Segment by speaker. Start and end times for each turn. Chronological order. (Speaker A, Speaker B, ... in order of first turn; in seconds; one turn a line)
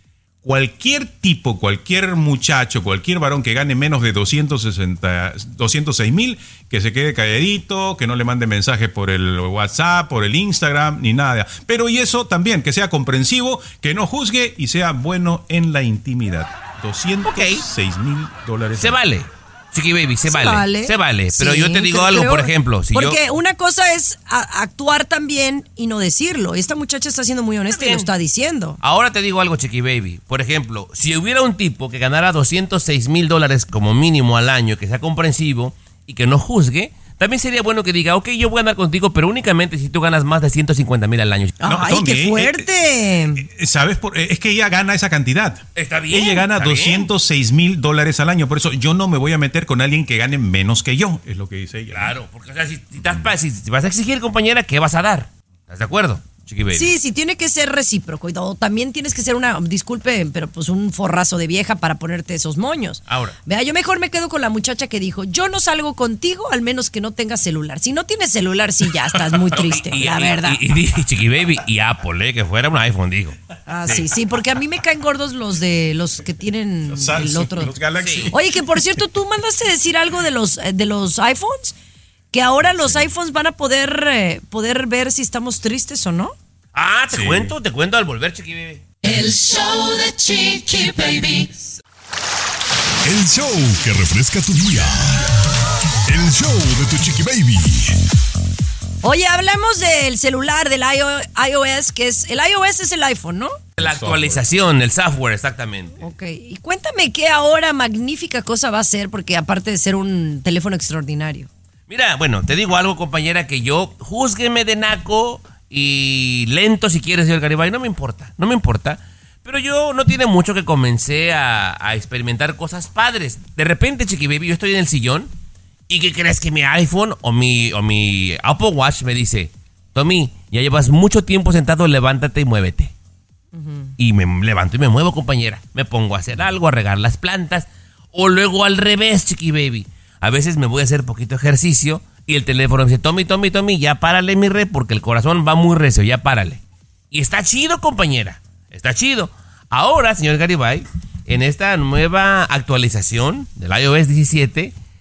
Speaker A: 0.4-19.0
Speaker B: 17.2-17.6
Speaker B: 18.8-23.2
Speaker C: 20.3-28.8
Speaker B: 27.7-28.1
Speaker B: 28.8-41.6
Speaker C: 41.6-43.5
Speaker A: 41.6-42.7
Speaker A: 43.4-52.2
Speaker B: 45.8-47.1
Speaker B: 51.9-56.9
Speaker C: 56.7-70.6
Speaker B: 63.1-63.4
Speaker B: 69.5-74.1
Speaker C: 73.7-77.8
Speaker A: 76.9-78.9
Speaker B: 78.0-78.3
Speaker C: 78.3-81.7
Speaker C: 82.3-86.3
Speaker B: 86.7-88.8
Speaker A: 87.1-87.5
Speaker D: 89.0-91.5
Speaker E: 93.0-95.3
Speaker E: 96.1-98.0
Speaker C: 99.0-103.7
Speaker A: 103.8-104.4
Speaker B: 103.8-106.0
Speaker C: 106.0-111.5
Speaker B: 111.9-125.3
Speaker B: 125.9-132.9
Speaker C: 133.5-133.9
Speaker B: 134.0-154.7